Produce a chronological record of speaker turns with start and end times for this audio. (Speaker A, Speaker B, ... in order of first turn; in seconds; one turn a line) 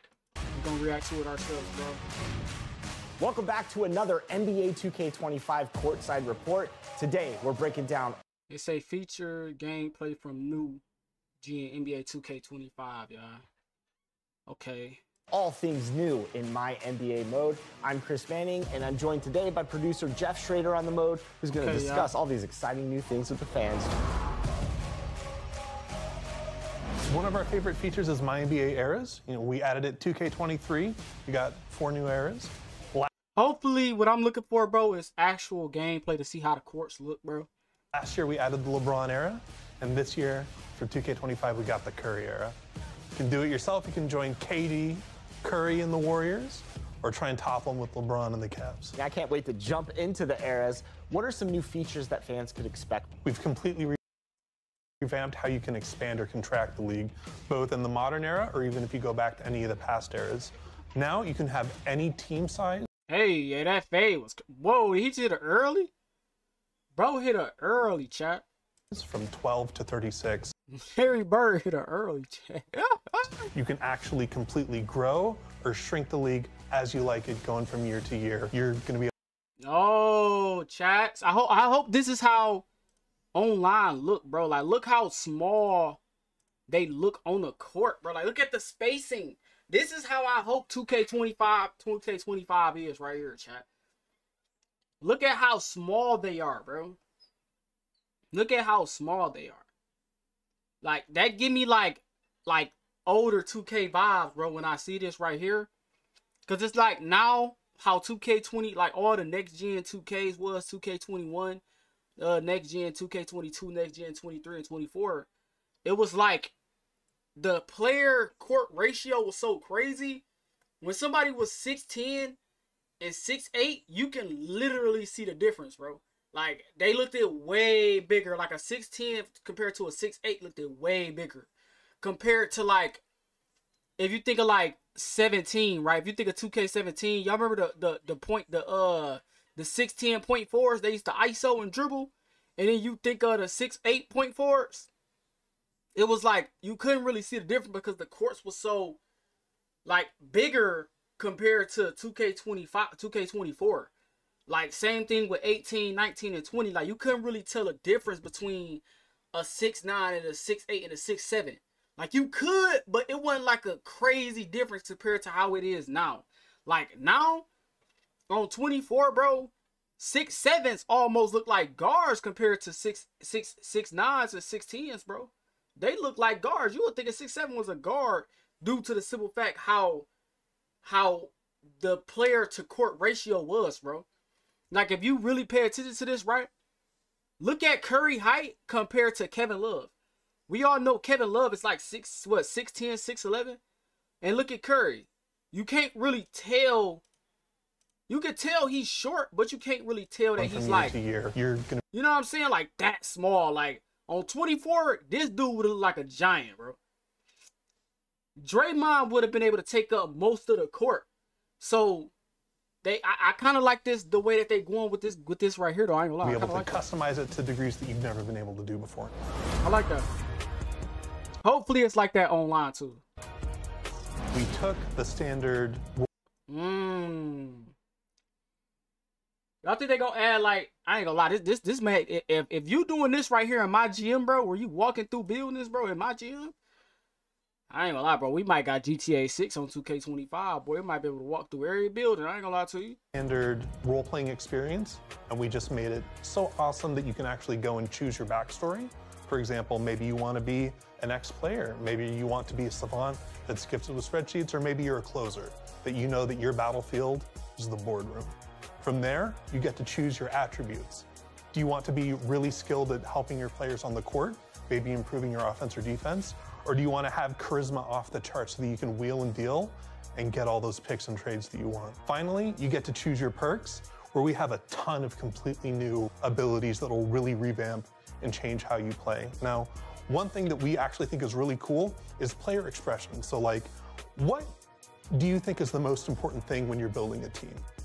Speaker A: 0.5-2.0
Speaker B: 3.2-8.2
Speaker A: 8.5-10.8
Speaker A: 11.4-13.4
Speaker A: 14.5-15.0
Speaker B: 15.3-23.9
Speaker A: 21.6-22.1
Speaker C: 27.1-33.1
Speaker A: 33.4-37.5
Speaker C: 37.9-42.6
Speaker C: 43.2-49.0
Speaker B: 49.0-53.1
Speaker C: 53.2-54.0
Speaker C: 55.0-62.9
Speaker A: 63.1-65.9
Speaker A: 67.0-68.5
Speaker C: 68.9-70.5
Speaker A: 70.7-73.5
Speaker C: 73.5-79.1
Speaker A: 79.6-82.7
Speaker A: 83.3-86.0
Speaker A: 86.7-93.7
Speaker A: 95.0-97.0
Speaker A: 98.3-99.7
Speaker A: 100.8-105.7
Speaker A: 106.5-111.6
Speaker A: 112.2-115.3
Speaker A: 115.8-116.5
Speaker A: 117.4-120.2
Speaker A: 120.8-122.4
Speaker A: 123.0-131.5
Speaker A: 132.0-133.0
Speaker A: 134.0-144.9
Speaker A: 145.9-149.0
Speaker A: 149.8-153.9
Speaker A: 154.5-167.5
Speaker A: 168.3-180.1
Speaker A: 180.8-184.1
Speaker A: 184.7-186.5
Speaker A: 187.4-189.9
Speaker A: 190.5-193.6
Speaker A: 194.2-197.0
Speaker A: 198.1-201.0
Speaker C: 200.4-201.8
Speaker A: 201.9-206.8
Speaker A: 208.4-211.1
Speaker A: 211.6-212.1
Speaker A: 212.8-216.9
Speaker C: 216.2-219.2
Speaker A: 219.6-220.1
Speaker A: 221.4-223.0
Speaker C: 224.3-226.1
Speaker A: 226.5-227.7
Speaker A: 229.6-236.5
Speaker A: 237.7-243.0
Speaker C: 243.1-284.5
Speaker C: 285.1-287.6